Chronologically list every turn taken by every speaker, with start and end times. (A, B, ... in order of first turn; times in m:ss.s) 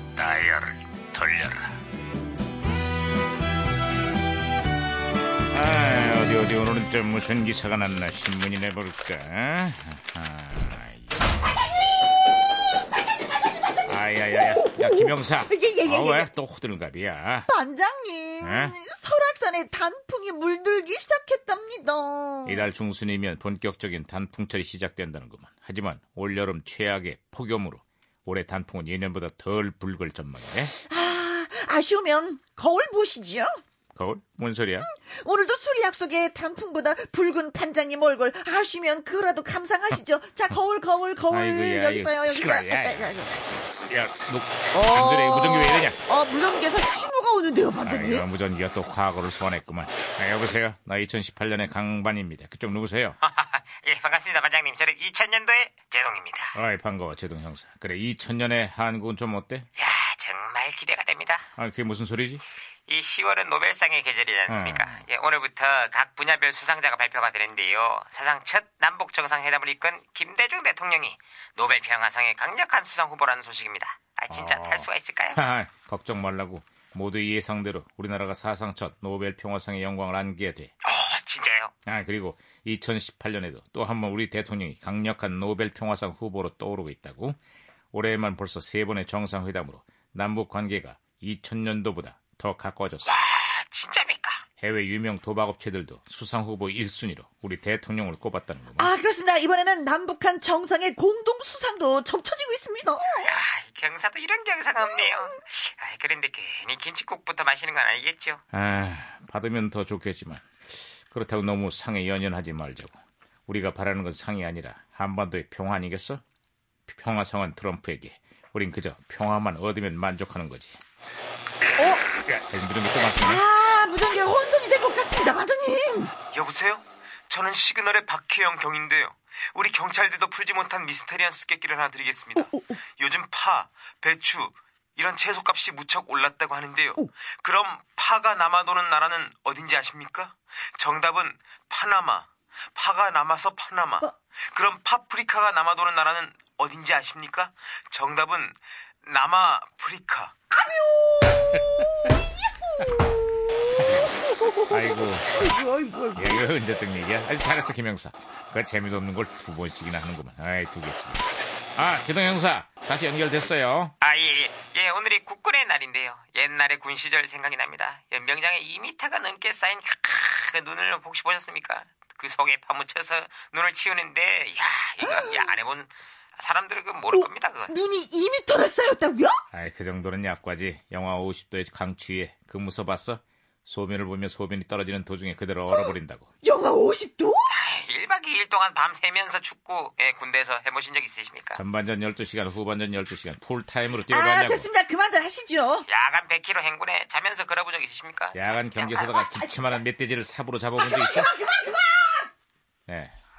0:00.1-0:01.8 A
0:05.5-0:11.2 A
0:13.8-0:17.5 A
0:14.3-0:16.3 B
0:17.5-0:22.7 B
0:18.4-0:18.8 A
0:22.4-0:30.7 A
0:30.7-0:33.5 B
0:33.9-0:34.9 A
0:34.8-0:43.4 B
0:41.3-0:46.0 A
0:44.7-0:48.2 B
0:47.8-0:53.2 A
0:53.2-0:56.5 C
0:56.5-0:59.7 A
0:59.8-1:01.5 C
1:01.6-1:02.4 A
1:02.9-1:15.4 C
1:04.5-1:05.0 A
1:14.3-1:20.7 A
1:20.8-1:21.7 C
1:21.8-1:27.4 A
1:27.9-1:33.1 A
1:33.0-1:34.4 C
1:34.6-1:38.9 A
1:38.8-1:43.3 B
1:43.2-1:48.4 C
1:48.5-1:50.4 A
1:51.1-1:53.0 A
1:53.5-1:56.2 A
1:56.9-2:00.8 A
2:01.8-2:02.0 B
2:02.2-2:03.4 A
2:03.2-2:06.1 B
2:06.3-2:30.3 C
2:12.4-2:12.8 B
2:30.5-2:31.6 B
2:33.8-2:36.4 B
2:33.8-2:34.1 A
2:34.6-2:35.6 A
2:36.1-2:43.9 A
2:44.0-2:57.7 C
2:55.0-2:55.5 B
2:57.1-2:59.4 B
2:59.5-3:06.3 A
3:05.7-3:07.5 B
3:07.5-3:11.6 C
3:11.5-3:14.7 A
3:14.1-3:15.8 B
3:15.9-3:19.0 C
3:18.3-3:21.3 A
3:19.0-3:19.8 B
3:20.8-3:22.3 B
3:22.9-3:23.1 A